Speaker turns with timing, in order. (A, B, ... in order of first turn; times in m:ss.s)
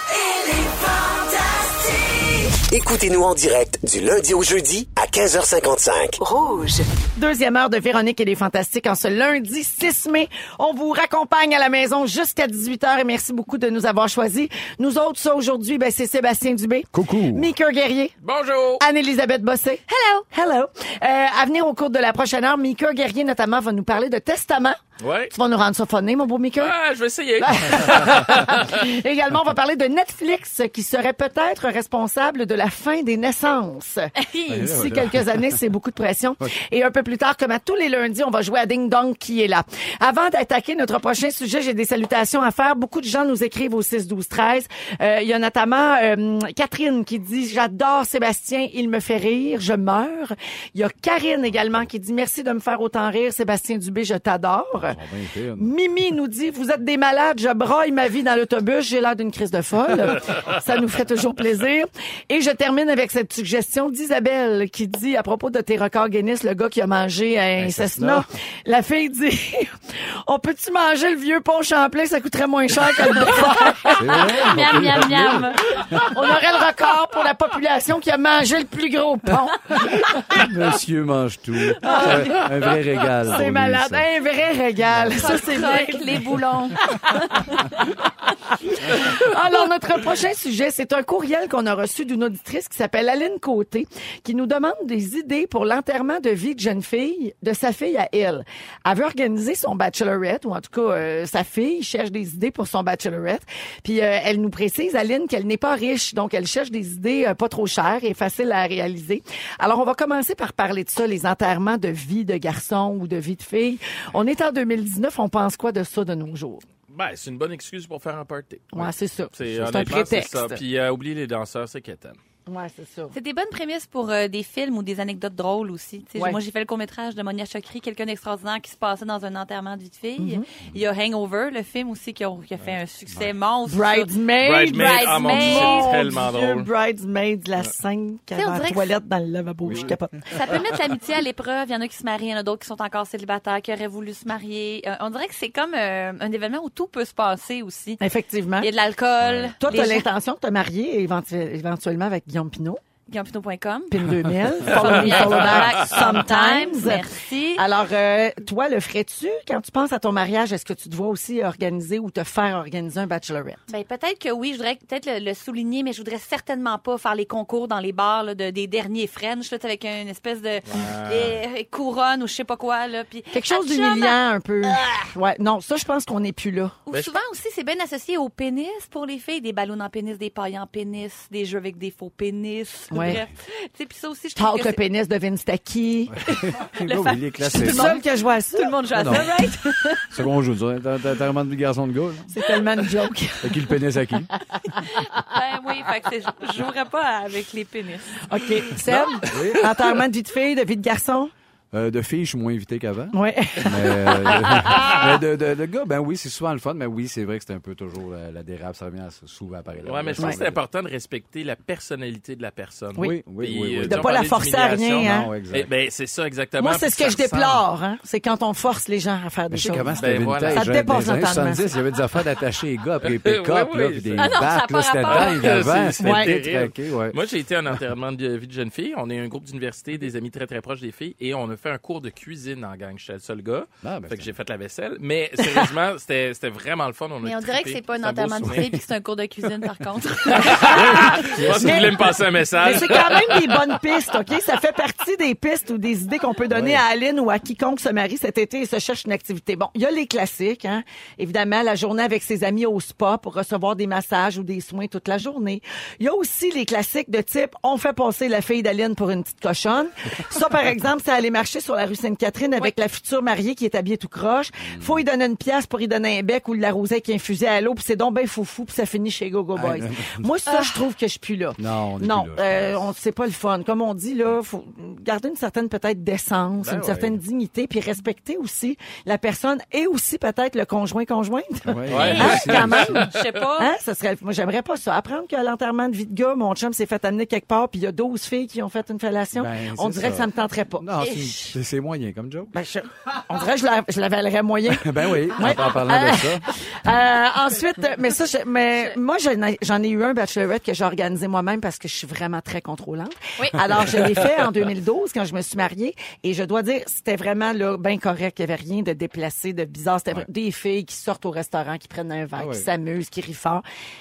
0:00.2-0:02.6 A
0:02.7-0:06.2 B
0:06.2-0:06.8 A
0:07.2-0:18.1 C
0:16.9-0:17.5 D
0:18.2-0:18.8 E
0:18.8-0:24.8 C
0:19.9-0:20.2 F
0:25.0-0:25.3 E
0:25.3-0:26.7 C
0:26.6-0:28.8 E
0:27.4-0:34.1 C
0:34.2-0:34.8 F
0:34.5-0:35.6 D
0:34.6-0:55.0 C
0:51.6-0:51.8 D
0:54.7-0:55.7 D
0:55.6-1:09.7 C
1:07.6-1:08.3 D
1:10.3-1:14.2 C
1:13.1-1:15.7 F
1:13.9-1:16.0 D
1:16.0-1:20.1 C
1:20.3-1:24.0 D
1:21.8-1:22.5 F
1:21.9-1:22.4 C
1:23.3-1:26.1 C
1:24.8-1:25.3 D
1:25.1-1:27.6 F
1:28.8-1:56.6 C
1:56.9-2:02.2 E
1:58.7-2:00.6 C
2:02.5-2:03.2 C
2:03.1-2:14.1 F
2:10.2-2:10.4 C
2:13.7-2:20.2 C
2:14.4-2:16.7 E
2:14.7-2:16.0 F
2:18.3-2:19.0 F
2:19.6-2:20.0 D
2:20.3-2:28.0 F
2:28.0-2:28.7 C
2:28.6-2:30.1 F
2:29.2-2:29.6 D
2:29.6-2:32.8 C
2:33.1-2:37.6 F
2:33.9-2:43.6 C
2:35.0-2:35.7 E
2:43.7-2:55.1 F
2:50.7-2:51.4 E
2:53.3-2:56.8 C
2:56.9-3:04.8 F
2:56.9-2:57.2 E
3:02.9-3:03.2 C
3:04.4-3:06.2 C
3:06.1-3:08.0 D
3:06.8-3:10.1 F
3:07.6-3:09.1 C
3:08.9-3:09.3 D
3:10.1-3:12.3 D
3:12.3-3:13.7 C
3:13.4-3:14.3 D
3:15.0-3:18.1 F
3:18.3-3:21.3 C
3:19.3-3:19.7 D
3:21.7-3:30.6 D
3:23.1-3:25.1 C
3:29.8-3:37.6 E
3:33.0-3:34.2 D
3:33.9-3:35.3 C
3:35.0-3:35.7 D
3:36.6-3:39.9 C
3:39.5-3:47.2 D
3:39.9-3:40.6 E
3:40.5-3:41.7 C
3:43.0-3:44.4 E
3:44.2-3:45.8 F
3:45.0-3:58.8 E
3:46.0-3:46.4 C
3:53.8-3:54.3 D
3:57.2-4:01.1 F
3:58.4-3:58.7 D
4:00.3-4:03.7 E
4:00.5-4:02.2 D
4:01.5-4:02.0 C
4:02.6-4:50.9 C
4:06.5-4:06.8 D
4:24.6-4:25.0 D
4:29.6-4:30.3 D
4:30.5-4:30.8 F
4:31.6-4:32.8 D
4:36.6-4:37.1 E
4:41.7-4:43.0 D
4:41.9-4:43.3 E
4:42.0-4:43.7 F
4:49.3-4:52.5 D
4:51.0-4:51.4 F
4:52.5-5:13.6 C
4:54.7-4:56.5 D
5:12.4-5:12.7 D